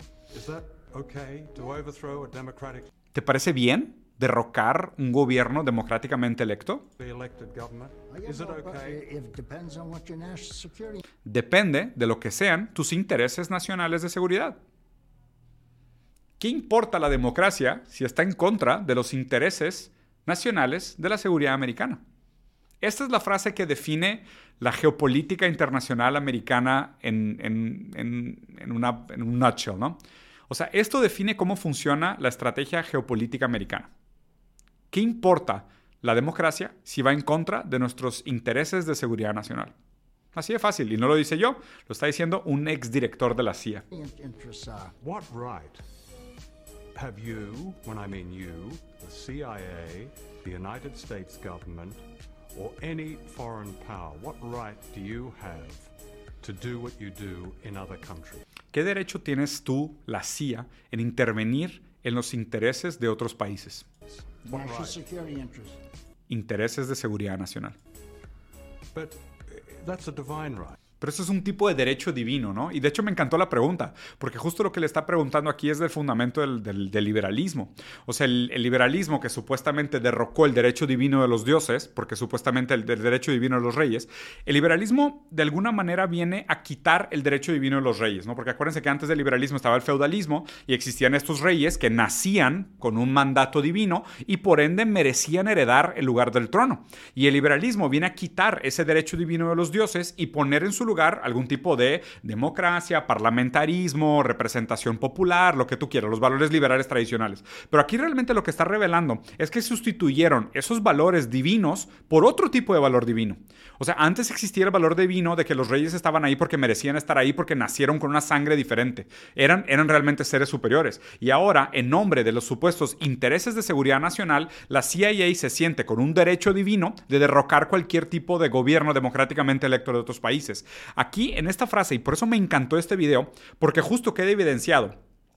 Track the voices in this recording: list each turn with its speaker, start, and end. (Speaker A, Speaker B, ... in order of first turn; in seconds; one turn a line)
Speaker A: 0.3-2.9
Speaker B: 3.1-6.8
Speaker A: 7.0-9.0
Speaker C: 8.1-11.0
Speaker B: 11.2-14.6
Speaker B: 16.4-22.0
Speaker B: 22.8-30.0
Speaker B: 30.5-33.9
Speaker B: 34.9-39.7
Speaker B: 40.3-43.8
Speaker C: 43.9-44.9
Speaker A: 45.0-45.8
Speaker A: 46.9-52.0
Speaker A: 52.5-58.4
Speaker B: 58.7-63.9
Speaker A: 64.5-65.0
Speaker C: 64.5-65.8
Speaker B: 66.3-67.8
Speaker A: 68.9-70.8
Speaker B: 71.0-135.0